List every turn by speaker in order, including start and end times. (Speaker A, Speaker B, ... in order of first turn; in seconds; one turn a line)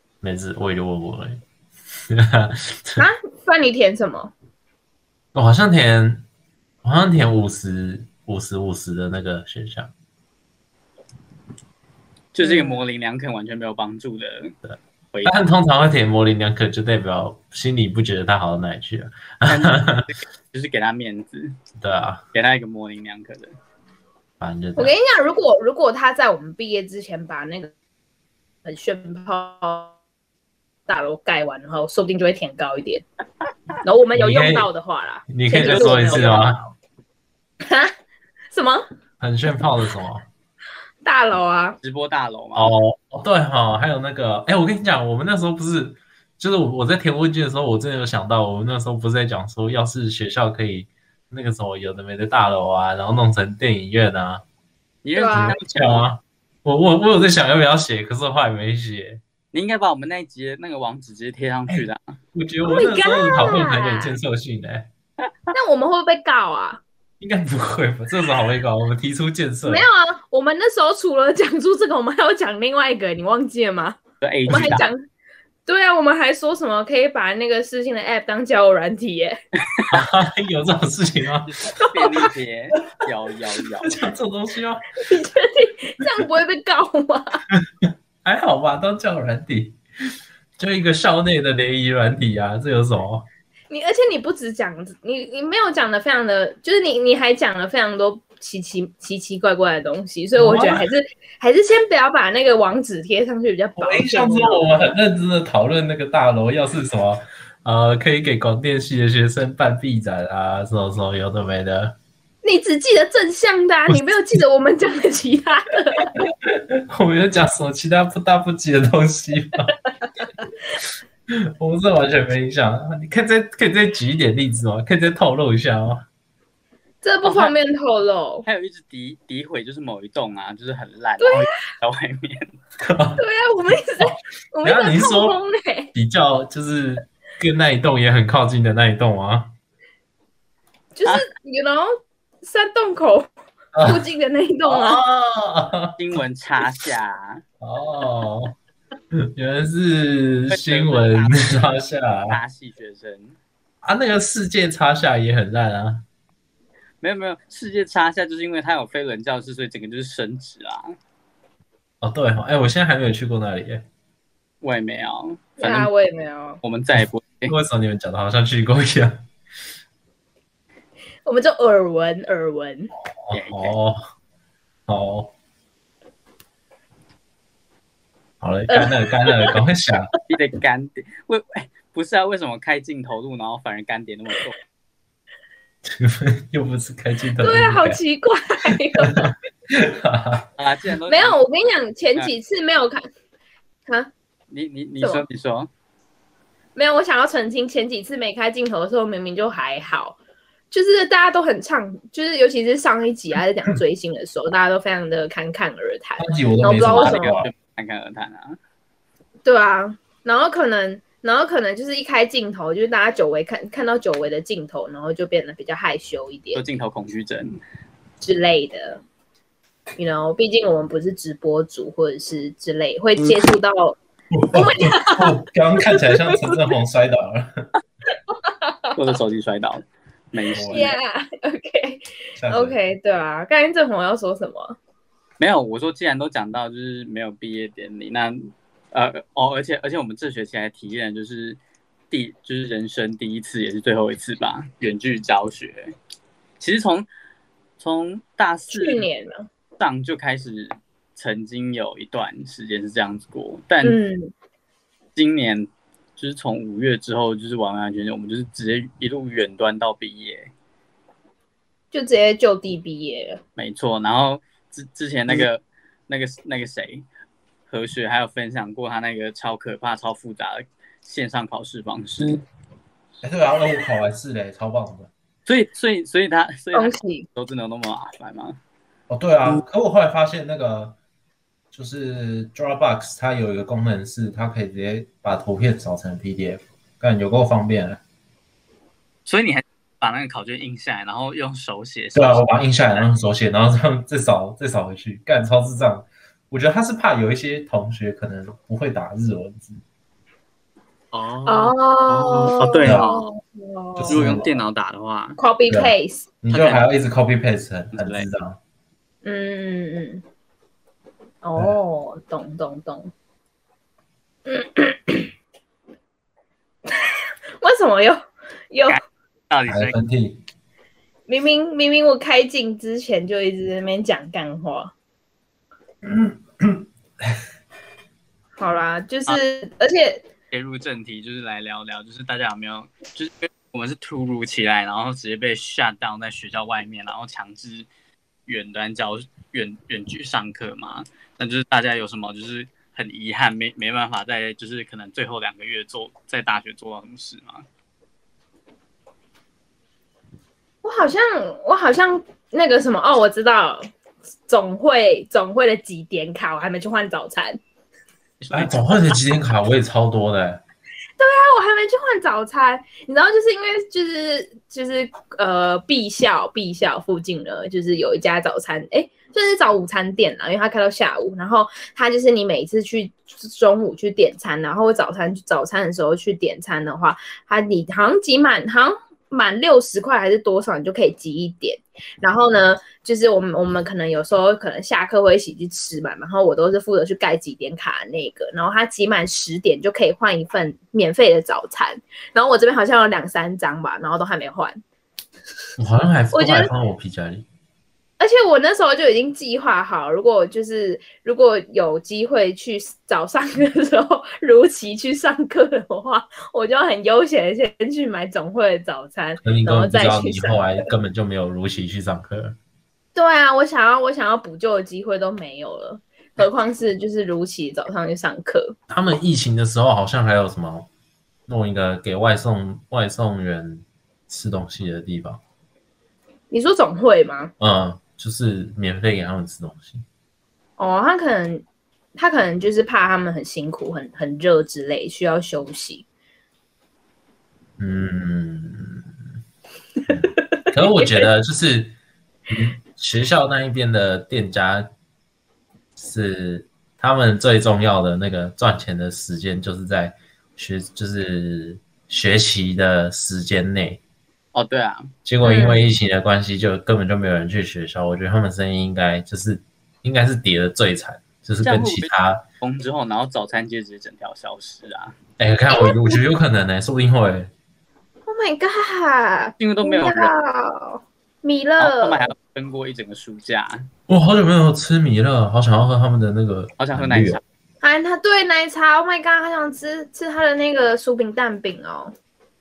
Speaker A: 0.2-1.4
Speaker A: 2.1-3.0
Speaker B: 3.0-4.3
Speaker A: 5.3-6.2
Speaker A: 6.8-9.9
Speaker C: 12.3-14.6
Speaker B: 12.4-12.8
Speaker A: 14.7-20.1
Speaker C: 15.1-15.4
Speaker C: 19.5-21.6
Speaker A: 21.8-22.2
Speaker C: 22.3-23.5
Speaker A: 24.4-24.9
Speaker B: 24.8-27.7
Speaker B: 28.6-29.9
Speaker B: 30.9-33.0
Speaker B: 33.8-36.6
Speaker A: 34.1-34.7
Speaker A: 35.3-36.6
Speaker C: 35.6-36.5
Speaker B: 37.6-37.9
Speaker B: 38.5-38.8
Speaker A: 39.2-40.2
Speaker B: 41.0-41.8
Speaker C: 41.8-42.7
Speaker A: 42.5-54.4
Speaker C: 55.0-56.1
Speaker B: 55.1-55.6
Speaker A: 55.3-59.2
Speaker C: 59.5-62.1
Speaker A: 61.7-64.9
Speaker B: 62.7-64.2
Speaker B: 65.5-66.8
Speaker A: 67.2-69.9
Speaker B: 69.7-75.0
Speaker C: 74.2-74.9
Speaker A: 74.5-74.8
Speaker B: 75.7-79.4
Speaker A: 79.9-81.6
Speaker C: 81.5-84.0
Speaker B: 81.8-82.3
Speaker A: 83.8-84.9
Speaker B: 85.0-87.4
Speaker A: 87.5-89.8
Speaker A: 90.6-93.3
Speaker B: 93.7-104.8
Speaker A: 100.3-100.8
Speaker A: 103.8-112.0
Speaker B: 112.4-116.1
Speaker A: 113.9-114.3
Speaker A: 116.2-119.7
Speaker A: 121.3-126.0
Speaker B: 127.0-128.4
Speaker C: 127.2-127.5
Speaker C: 128.4-132.5
Speaker B: 131.2-131.5
Speaker A: 132.8-133.2
Speaker B: 133.2-135.9
Speaker A: 134.0-135.4
Speaker A: 135.9-139.5
Speaker B: 140.9-141.9
Speaker B: 142.4-143.3
Speaker A: 143.7-144.1
Speaker B: 143.8-145.0
Speaker A: 144.7-145.9
Speaker C: 146.0-147.4
Speaker A: 147.6-148.5
Speaker A: 149.2-152.4
Speaker C: 150.5-151.8
Speaker C: 152.3-153.4
Speaker A: 153.8-156.1
Speaker C: 157.0-160.9
Speaker A: 162.0-163.8
Speaker C: 164.6-165.9
Speaker B: 165.6-166.6
Speaker C: 166.6-167.5
Speaker A: 166.9-169.2
Speaker B: 171.2-172.9
Speaker A: 173.1-174.0
Speaker C: 173.3-173.8
Speaker A: 174.9-175.3
Speaker A: 178.4-180.1
Speaker B: 178.7-179.6
Speaker C: 180.3-184.6
Speaker A: 185.8-188.0
Speaker B: 187.4-189.3
Speaker A: 189.0-190.5
Speaker C: 190.6-191.4
Speaker B: 191.1-193.1
Speaker B: 193.9-194.1
Speaker C: 194.5-195.7
Speaker B: 195.0-195.2
Speaker B: 196.8-200.2
Speaker B: 200.7-207.4
Speaker A: 206.2-207.5
Speaker C: 206.9-208.6
Speaker B: 209.4-216.6
Speaker C: 216.5-217.6
Speaker B: 218.2-219.0
Speaker B: 220.0-224.0
Speaker A: 224.3-227.7
Speaker B: 224.5-226.6
Speaker B: 228.3-229.0
Speaker C: 228.9-230.9
Speaker A: 230.5-230.9
Speaker B: 230.7-234.8
Speaker A: 232.4-232.8
Speaker C: 235.4-241.6
Speaker C: 242.1-245.9
Speaker C: 246.6-247.1
Speaker C: 247.8-249.1
Speaker B: 248.7-249.5
Speaker C: 249.8-254.0
Speaker B: 253.8-254.3
Speaker C: 255.1-260.5
Speaker B: 261.9-263.4
Speaker C: 263.6-267.1
Speaker C: 267.7-272.4
Speaker A: 273.2-275.1
Speaker C: 275.4-278.6
Speaker B: 276.7-277.2
Speaker A: 279.1-280.9
Speaker A: 281.7-288.0
Speaker C: 289.2-293.0
Speaker A: 292.1-299.8
Speaker C: 301.1-303.3
Speaker B: 301.4-304.4
Speaker A: 302.8-303.1
Speaker A: 304.0-304.6
Speaker C: 304.1-305.4
Speaker B: 305.4-306.2
Speaker A: 305.7-308.6
Speaker C: 306.5-306.8
Speaker C: 307.9-308.2
Speaker B: 309.2-310.2
Speaker B: 311.4-313.1
Speaker B: 314.4-315.3
Speaker B: 317.0-319.0
Speaker C: 318.9-319.9
Speaker A: 319.7-320.4
Speaker B: 321.3-324.9
Speaker A: 326.0-327.3
Speaker B: 328.6-330.3
Speaker C: 330.5-337.9
Speaker C: 338.5-347.6
Speaker B: 350.8-353.8
Speaker B: 354.5-357.6
Speaker C: 358.4-359.2
Speaker A: 358.5-360.6
Speaker B: 361.2-394.8
Speaker A: 395.8-397.4
Speaker B: 396.3-396.7
Speaker B: 398.2-410.8
Speaker A: 409.4-412.6
Speaker B: 413.1-418.8
Speaker A: 418.9-420.9
Speaker A: 421.5-425.4
Speaker B: 426.5-427.5
Speaker A: 427.6-430.0
Speaker B: 430.8-431.6
Speaker B: 432.1-436.0
Speaker A: 437.8-439.1
Speaker A: 440.1-442.0
Speaker B: 440.2-441.3
Speaker A: 442.5-444.9
Speaker A: 445.9-454.0
Speaker C: 454.5-455.1
Speaker A: 455.2-462.4
Speaker B: 455.4-455.9
Speaker C: 461.6-465.1
Speaker A: 465.4-467.5
Speaker B: 465.7-466.2
Speaker B: 468.2-472.3
Speaker C: 469.6-470.3
Speaker C: 471.8-473.9
Speaker A: 474.1-477.4
Speaker C: 476.8-477.4
Speaker B: 477.8-482.1